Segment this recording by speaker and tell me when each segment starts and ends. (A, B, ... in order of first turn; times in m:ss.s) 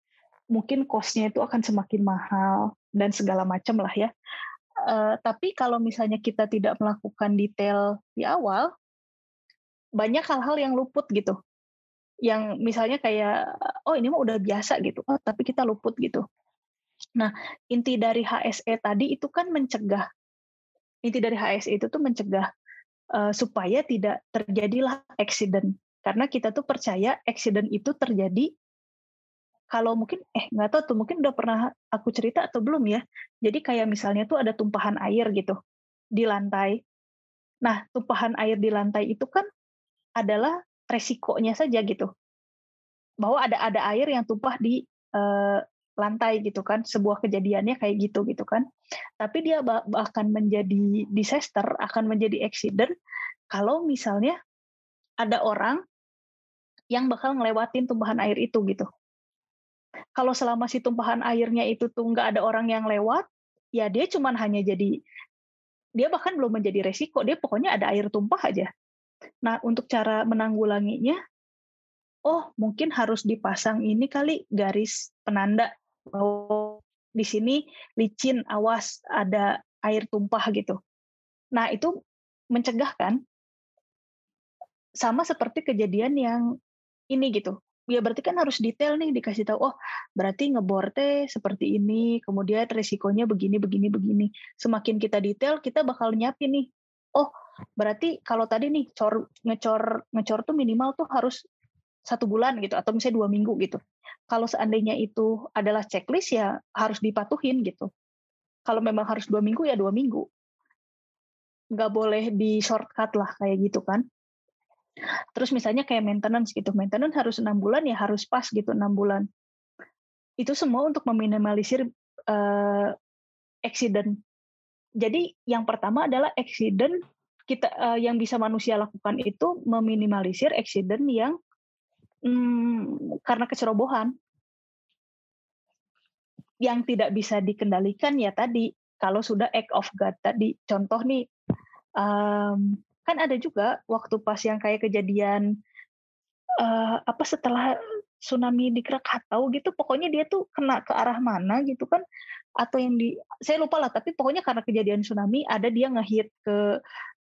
0:00.5-0:04.1 A
0:04.9-0:08.7 A
0:10.0-0:11.4 A
0:12.3-0:13.3 A
0:13.9-0:16.2 A
0:17.2-0:20.0 A
0:21.0-0:22.5 A
0:23.2-0:28.5 A
0:29.7-0:35.6 A
0:36.2-0:36.8 A
0:37.6-0:39.4 A
0:40.2-0:42.1 A
0:43.2-0:48.6 A
0:49.2-0:52.9 A
0:53.5-0:54.4 A
0:55.2-0:55.8 A
0:56.9-0:58.9 A
1:00.2-1:03.2 A
1:03.8-1:04.9 A
1:06.0-1:08.7 A
1:09.4-1:11.2 A
1:12.3-1:20.8 A
1:21.5-1:21.9 A
1:22.5-1:23.2 A
1:25.0-1:26.4 A
1:27.1-1:37.3 A
1:37.8-1:41.4 A
1:42.1-1:43.8 A
1:44.3-1:47.9 A
1:48.7-1:50.2 A
1:51.8-1:54.0 A
1:55.4-1:59.2 A
2:00.4-2:02.9 A
2:03.7-2:04.1 A
2:05.0-2:07.0 A
2:07.5-2:11.3 A
2:12.3-2:14.1 A
2:16.6-2:21.2 A
2:22.0-2:25.4 A
2:26.6-2:27.7 A
2:28.2-2:32.0 A
2:32.6-2:36.5 A